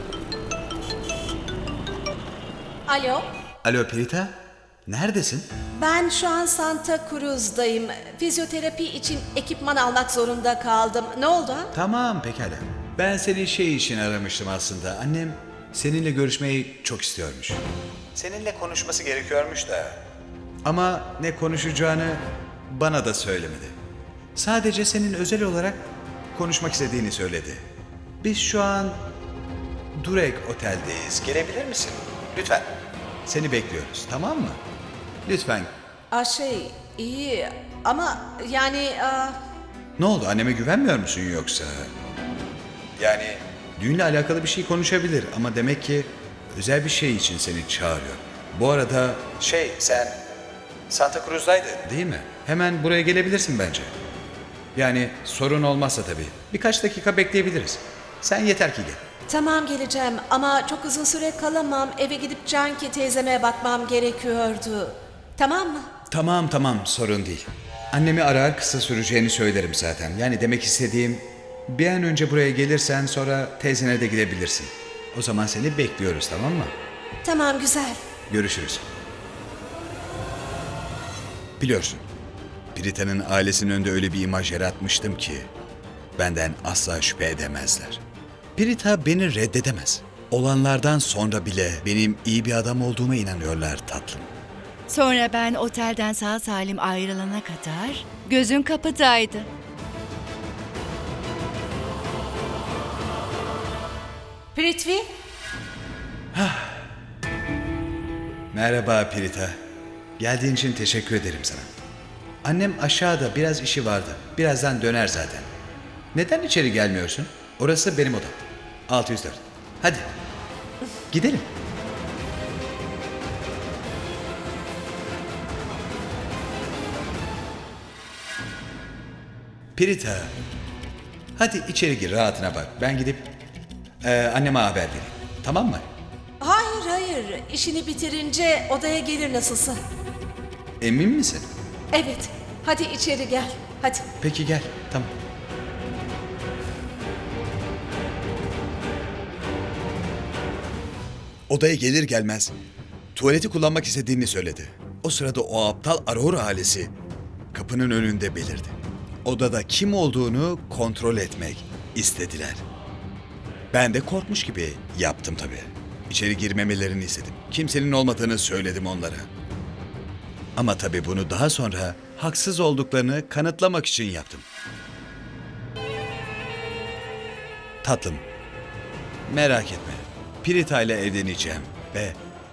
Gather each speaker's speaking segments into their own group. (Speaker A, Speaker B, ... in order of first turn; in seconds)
Speaker A: 2.9-3.3, 5.8-11.7, 36.1-39.4, 59.3-65.9, 77.2-78.0, 104.5-105.1, 136.4-139.8, 141.9-144.0
Speaker B: 3.6-5.5, 11.7-17.6, 18.2-20.0, 20.6-23.8, 24.4-25.8, 26.4-27.6, 28.2-29.0, 30.0-32.7, 33.3-34.6, 35.3-35.7, 40.0-41.9, 43.0-50.2, 50.9-53.9, 54.8-59.0, 66.1-76.7, 78.3-78.8, 81.6-82.0, 82.8-85.5, 86.2-88.0, 88.6-94.3, 106.3-106.8, 108.5-109.6, 110.2-111.7, 112.4-115.5, 116.1-120.1, 121.1-121.5, 129.8-130.3, 131.4-133.3, 134.0-135.8, 140.8-141.5, 144.2-145.1, 151.5-152.5, 153.2-156.9, 157.5-162.6, 163.7-169.3, 170.6-174.5, 177.8-178.2, 179.3-182.2
Speaker C: 94.9-99.5